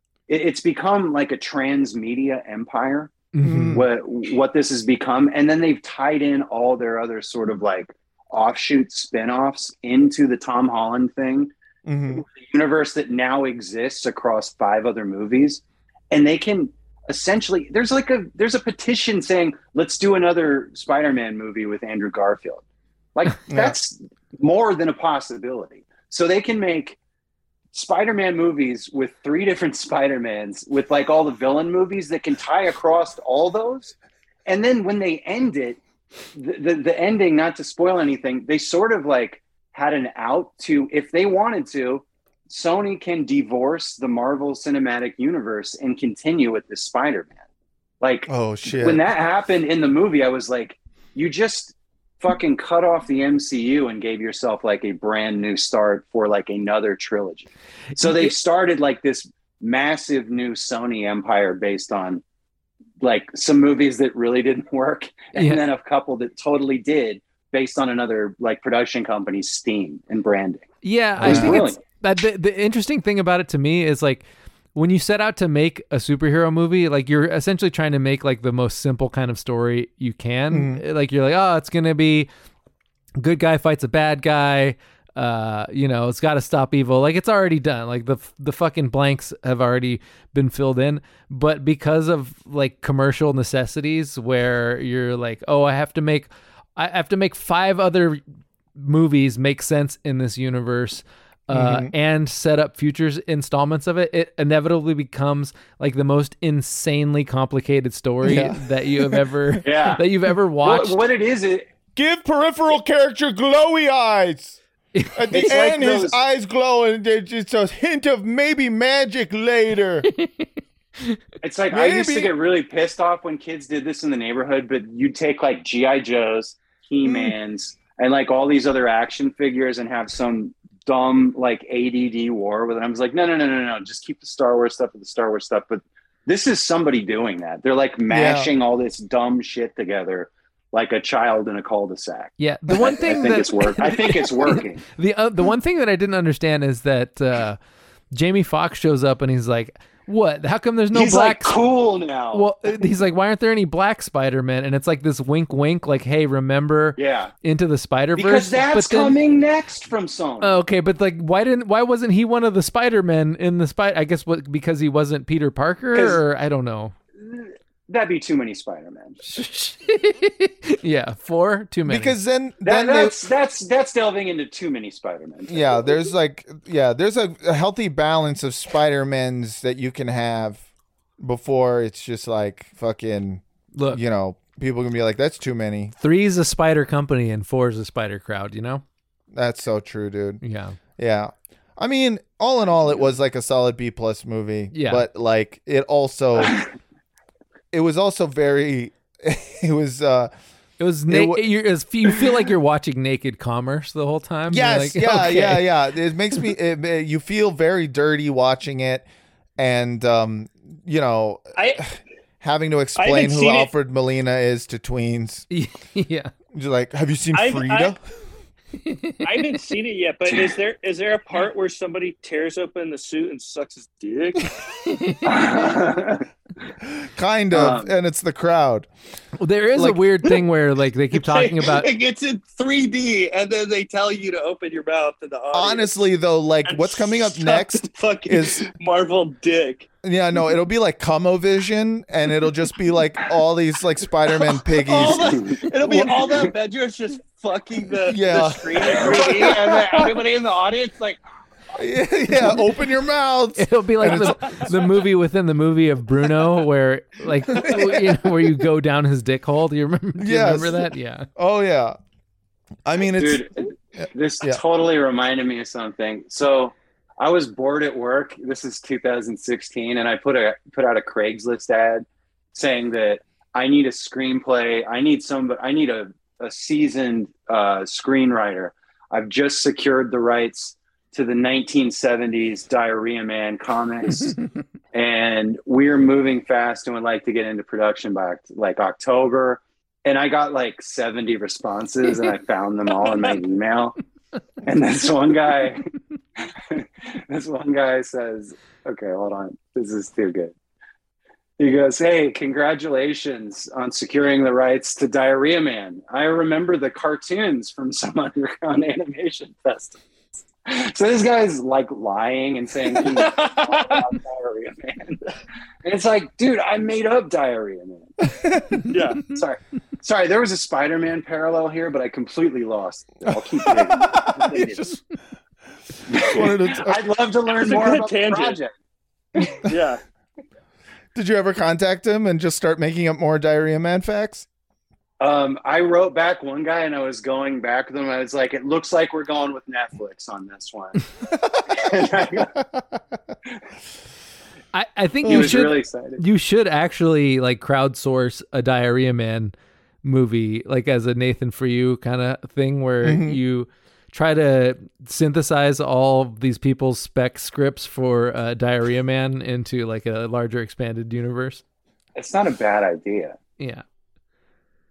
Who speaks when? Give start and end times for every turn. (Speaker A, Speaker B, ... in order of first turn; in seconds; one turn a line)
Speaker A: 0.3-11.5
Speaker B: 3.3-3.8
Speaker C: 3.4-3.9
Speaker C: 11.9-12.2
Speaker A: 12.1-22.6
Speaker A: 23.1-27.0
Speaker C: 23.5-23.8
Speaker A: 27.7-34.0
Speaker A: 34.5-35.8
Speaker A: 36.4-47.4
Speaker A: 48.0-62.2
Speaker C: 48.3-49.0
Speaker B: 58.0-58.3
Speaker A: 63.0-71.8
Speaker B: 65.4-65.6
Speaker B: 70.8-74.2
Speaker C: 71.2-71.6
Speaker B: 74.8-82.3
Speaker C: 80.5-80.8
Speaker B: 83.2-98.2
Speaker B: 98.8-111.0
Speaker C: 101.5-101.9
Speaker C: 108.2-109.2
Speaker A: 109.7-110.0
Speaker A: 110.6-111.7
Speaker C: 112.0-114.6
Speaker B: 115.0-115.5
Speaker C: 115.1-120.1
Speaker A: 115.3-116.2
Speaker B: 120.1-121.2
Speaker A: 121.4-144.8
Speaker C: 121.7-122.3
Speaker C: 127.0-127.3
Speaker C: 138.1-138.5
Speaker B: 142.4-147.6
Speaker C: 142.7-143.2
Speaker B: 148.1-151.6
Speaker A: 150.9-152.5
Speaker B: 152.3-159.2
Speaker A: 157.0-157.3
Speaker A: 158.2-160.6
Speaker B: 160.4-166.9
Speaker A: 165.9-166.2
Speaker A: 167.2-169.2
Speaker B: 169.3-172.2
Speaker C: 171.9-173.1
Speaker A: 172.6-175.9
Speaker C: 175.5-180.7
Speaker C: 181.2-185.9
Speaker B: 183.7-184.0
Speaker B: 186.0-188.8
Speaker C: 189.3-190.4
Speaker B: 190.4-190.8
Speaker C: 191.0-196.6
Speaker B: 194.7-195.1
Speaker C: 197.7-200.3
Speaker B: 200.8-205.7
Speaker C: 201.1-201.4
Speaker C: 204.5-209.1
Speaker C: 209.6-211.6
Speaker D: 211.5-211.9
Speaker C: 212.4-215.5
Speaker D: 213.0-213.7
Speaker B: 215.5-216.3
Speaker C: 216.5-218.0
Speaker D: 217.3-218.0
Speaker B: 218.8-219.6
Speaker D: 219.2-224.5
Speaker B: 224.8-225.6
Speaker A: 225.2-226.2
Speaker C: 226.9-228.9
Speaker A: 227.5-227.9
Speaker B: 229.4-231.9
Speaker D: 231.1-236.0
Speaker C: 235.5-238.7
Speaker D: 236.7-239.9
Speaker C: 240.0-246.3
Speaker D: 244.5-251.2
Speaker A: 245.3-245.6
Speaker C: 248.1-249.9
Speaker A: 248.9-250.1
Speaker C: 251.8-254.5
Speaker B: 253.6-261.3
Speaker D: 254.1-254.6
Speaker C: 257.5-258.2
Speaker C: 260.2-262.0
Speaker C: 262.9-263.4
Speaker A: 263.2-284.4
Speaker C: 264.0-264.6
Speaker A: 284.9-294.0
Speaker D: 292.9-293.4
Speaker A: 294.6-295.9
Speaker A: 296.7-300.5
Speaker A: 301.6-310.0
Speaker A: 310.6-315.1
Speaker D: 312.9-314.1
Speaker A: 315.8-318.1
Speaker C: 318.4-318.8
Speaker D: 318.9-319.2
Speaker A: 319.3-324.8
Speaker C: 323.3-325.0
Speaker A: 326.1-328.7
Speaker C: 326.1-327.0
Speaker D: 327.5-328.6
Speaker D: 329.6-330.0
Speaker C: 331.1-334.5
Speaker A: 335.2-341.0
Speaker C: 341.3-341.7
Speaker A: 341.7-342.5
Speaker B: 344.7-361.6
Speaker A: 345.2-346.2
Speaker C: 345.2-345.6
Speaker C: 353.0-353.4
Speaker A: 362.2-363.4
Speaker B: 363.6-363.8